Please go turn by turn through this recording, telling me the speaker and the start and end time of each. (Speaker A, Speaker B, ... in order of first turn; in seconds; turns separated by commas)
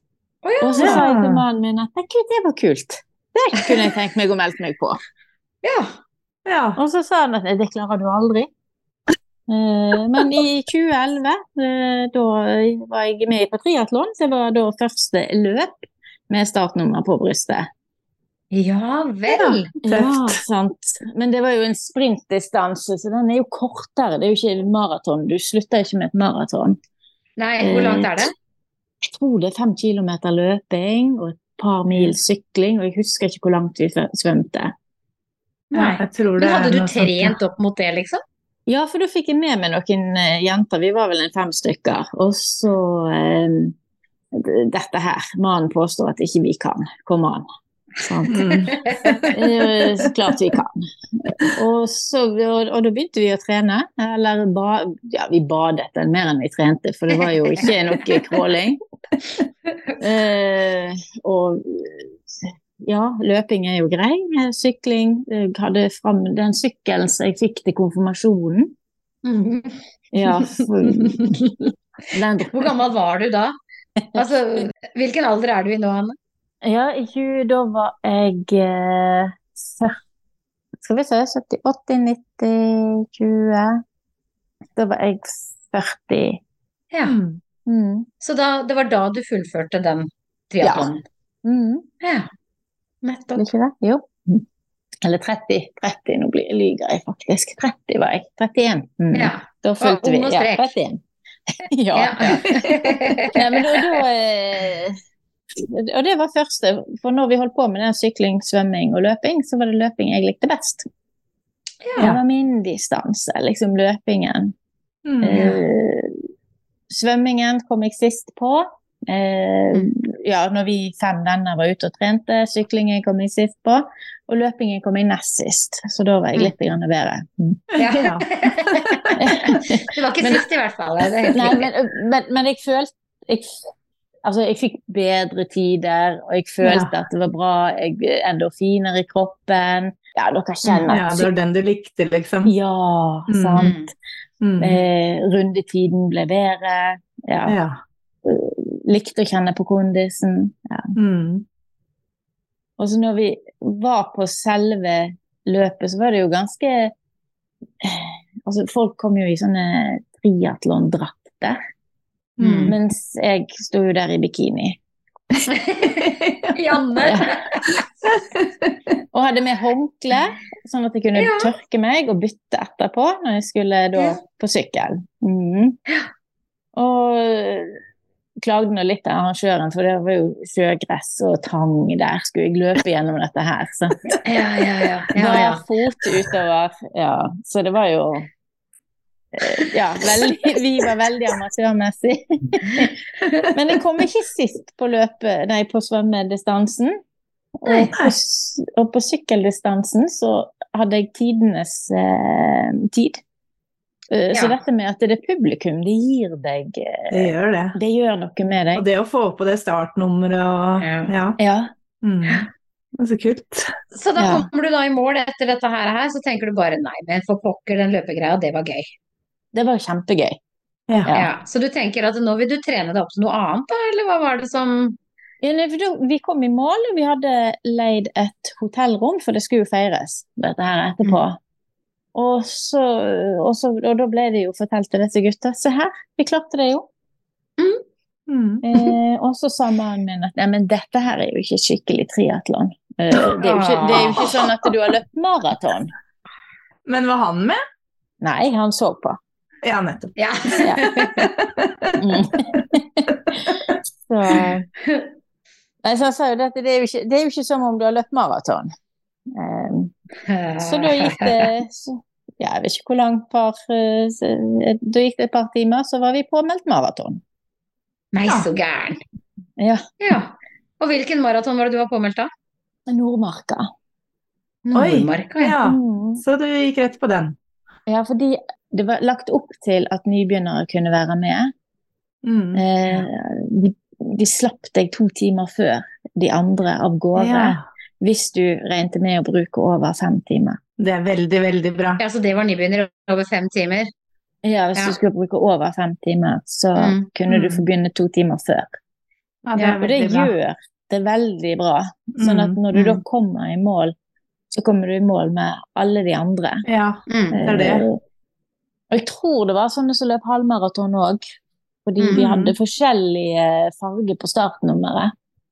Speaker A: 0.4-1.0, Speaker B: 0.6-5.0, Speaker C: 0.8-1.4, Speaker A: 5.6-5.9, Speaker C: 6.5-6.8, Speaker B: 6.8-8.5, Speaker B: 9.5-17.7, Speaker A: 18.5-19.7, Speaker C: 19.3-20.4, Speaker B: 19.8-26.8, Speaker A: 27.4-28.3, Speaker B: 27.6-28.3, Speaker B: 29.0-34.7, Speaker A: 35.7-38.2, Speaker C: 35.7-37.4, Speaker B: 38.7-43.7, Speaker B: 44.3-47.4, Speaker B: 48.0-48.4, Speaker C: 48.3-49.1, Speaker A: 48.3-49.4, Speaker B: 49.3-58.8, Speaker A: 57.2-58.2, Speaker B: 60.0-68.7, Speaker A: 69.2-71.7, Speaker B: 70.1-71.3, Speaker B: 72.1-72.7, Speaker A: 72.5-73.5, Speaker A: 74.1-76.2, Speaker B: 76.6-79.9, Speaker B: 80.8-83.8, Speaker B: 84.8-86.4, Speaker C: 87.0-87.4, Speaker B: 87.7-88.1, Speaker A: 88.2-91.0, Speaker B: 90.6-90.9, Speaker B: 91.4-91.8, Speaker A: 92.0-92.3, Speaker A: 93.0-93.5, Speaker B: 93.3-94.4, Speaker B: 95.0-101.0, Speaker A: 99.1-100.7, Speaker B: 101.6-102.6, Speaker A: 101.9-103.6, Speaker B: 103.3-105.0, Speaker B: 105.6-110.9, Speaker B: 112.0-114.5, Speaker C: 115.0-115.5, Speaker B: 115.2-116.1, Speaker B: 116.9-127.6, Speaker C: 127.7-129.6, Speaker A: 127.8-129.1, Speaker B: 129.2-130.4, Speaker A: 129.9-131.7, Speaker B: 131.3-133.6, Speaker B: 134.2-141.3, Speaker C: 136.6-136.9, Speaker C: 140.9-142.5, Speaker B: 142.4-143.9, Speaker C: 143.3-143.7, Speaker A: 143.6-143.9, Speaker C: 144.4-144.8, Speaker B: 144.6-147.6, Speaker C: 147.5-147.8, Speaker B: 148.2-150.9, Speaker C: 150.9-151.4, Speaker B: 152.8-156.9, Speaker B: 157.8-161.6, Speaker C: 162.4-162.8, Speaker A: 162.4-162.7, Speaker B: 162.7-164.8, Speaker A: 165.5-167.8, Speaker C: 166.0-167.2, Speaker B: 167.0-167.3, Speaker C: 168.1-168.4, Speaker B: 169.1-175.8, Speaker A: 171.2-171.5, Speaker B: 176.7-177.8, Speaker B: 178.4-184.0, Speaker A: 184.2-185.6, Speaker B: 185.1-188.3, Speaker B: 189.3-192.9, Speaker B: 193.5-197.0, Speaker B: 197.6-203.2, Speaker A: 197.7-197.9, Speaker B: 204.1-208.8, Speaker C: 207.1-207.8, Speaker C: 208.7-211.4, Speaker A: 210.8-211.1, Speaker B: 211.4-211.7, Speaker C: 212.0-212.4, Speaker C: 213.0-213.7, Speaker A: 213.9-218.9, Speaker B: 214.2-214.5, Speaker B: 219.5-220.4, Speaker C: 220.9-221.1, Speaker A: 221.1-225.0, Speaker B: 225.4-231.4, Speaker B: 232.1-236.9, Speaker C: 238.3-238.7, Speaker B: 238.6-245.9, Speaker A: 243.4-244.3, Speaker C: 246.8-247.6, Speaker B: 248.2-249.2, Speaker C: 249.6-252.0, Speaker A: 250.2-251.3, Speaker B: 252.0-254.7, Speaker B: 255.8-258.7, Speaker B: 259.3-259.9, Speaker A: 260.2-261.5, Speaker B: 260.6-267.2, Speaker A: 268.1-269.0, Speaker B: 269.6-269.9, Speaker A: 270.0-272.3, Speaker B: 272.9-273.7, Speaker A: 274.6-275.6, Speaker C: 274.7-277.3, Speaker B: 275.6-276.2, Speaker B: 277.9-281.5, Speaker C: 282.2-282.6, Speaker B: 282.5-290.6, Speaker C: 287.1-287.6, Speaker C: 290.8-292.0, Speaker A: 292.0-293.9, Speaker B: 294.4-298.8, Speaker A: 296.8-297.1, Speaker C: 299.4-300.3, Speaker B: 299.8-303.9, Speaker C: 302.2-302.6, Speaker A: 302.7-303.0, Speaker B: 304.5-306.6, Speaker C: 306.6-307.9, Speaker A: 307.1-307.4, Speaker B: 307.3-308.0, Speaker B: 308.9-311.2, Speaker B: 311.9-315.1, Speaker A: 312.0-312.3, Speaker C: 312.1-312.4